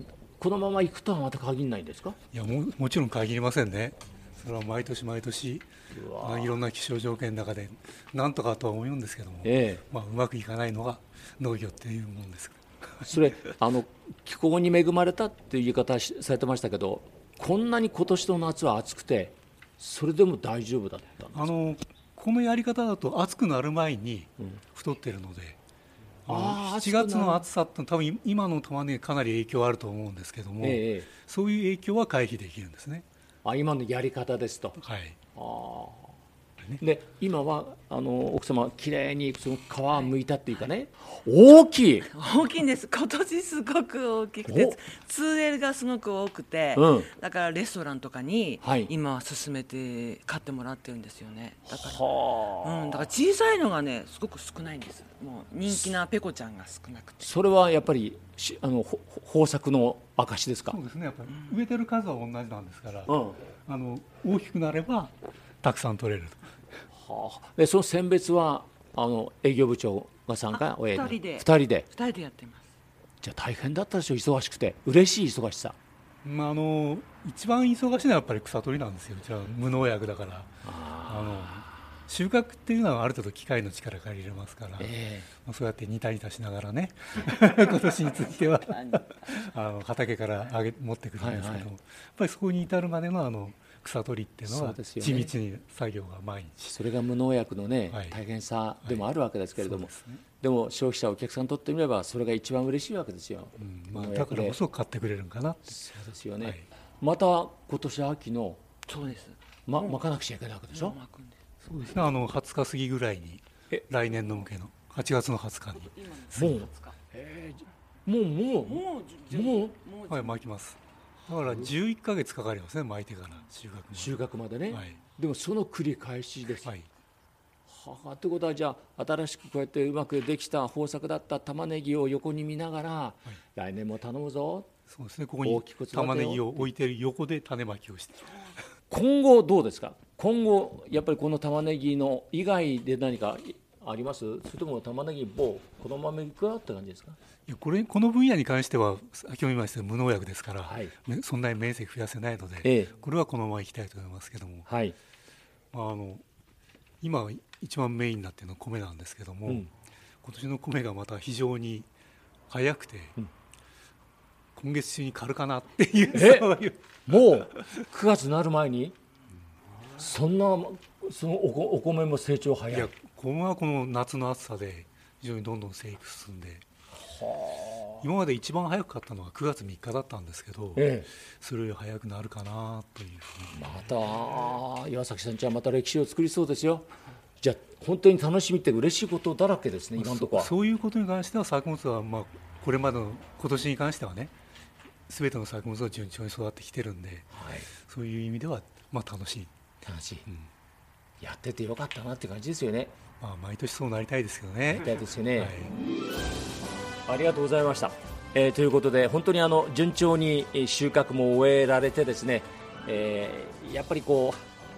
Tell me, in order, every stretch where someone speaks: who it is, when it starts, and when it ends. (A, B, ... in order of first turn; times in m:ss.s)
0:00.4-0:02.2 A
0:02.3-0:05.7 B
0:05.9-0:06.6 A
0:06.2-0:13.1 B
0:09.4-0:09.8 A
0:13.0-0:21.5 A
0:21.4-0:25.6 B
0:26.3-0:33.0 B
0:26.3-0:27.4 A
0:30.6-0:31.1 A
0:33.4-0:34.8 A
0:34.8-0:35.2 B
0:35.3-0:36.2 A
0:36.8-0:42.1 A
0:42.1-0:52.0 C
0:44.5-0:44.8 A
0:46.8-0:47.1 A
0:48.6-0:48.9 A
0:51.7-0:53.1 A
0:52.6-0:57.3 C
0:57.2-1:00.8 A
1:00.7-1:03.1 B
1:01.3-1:01.6 C
1:03.1-1:03.4 A
1:03.7-1:06.4 B
1:06.9-1:11.9 A
1:10.5-1:12.7 C
1:13.2-1:15.8 A
1:16.2-1:24.9 B
1:20.6-1:21.5 A
1:24.8-1:25.3 A
1:25.4-1:36.8 B
1:28.7-1:29.1 C
1:31.2-1:31.7 A
1:34.5-1:35.3 A
1:36.7-1:44.6 A
1:37.9-1:38.2 B
1:38.8-1:40.2 B
1:43.6-1:45.7 B
1:45.7-1:48.6 A
1:48.9-1:49.4 C
1:49.7-1:51.0 A
1:50.7-1:51.4 C
1:51.6-1:56.6 B
1:55.7-1:57.0 C
1:56.4-1:59.7 A
1:58.6-2:00.4 C
2:00.1-2:05.0 B
2:03.9-2:06.7 A
2:07.7-2:14.7 A
2:14.9-2:18.5 B
2:15.4-2:16.7 A
2:18.9-2:27.2 A
2:27.5-2:34.7 B
2:30.6-2:30.9 A
2:32.6-2:32.9 A
2:34.7-2:35.0 A
2:35.7-2:36.2 B
2:37.0-2:39.7 B
2:40.2-2:41.9 B
2:42.5-2:43.2 B
2:44.6-2:47.8 B
2:46.1-2:46.5 A
2:47.1-2:49.0 A
2:49.9-2:52.9 A
2:52.7-2:56.6 B
2:57.0-2:58.1 A
2:58.0-3:00.9 B
3:00.8-3:01.1 A
3:01.4-3:03.6 B
3:03.5-3:06.9 A
3:07.4-3:10.5 A
3:10.0-3:14.3 B
3:15.1-3:17.3 B
3:17.3-3:17.7 A
3:17.9-3:19.5 B
3:19.8-3:20.3 A
3:21.2-3:23.0 A
3:23.2-3:25.7 B
3:24.7-3:25.5 A
3:27.1-3:34.4 A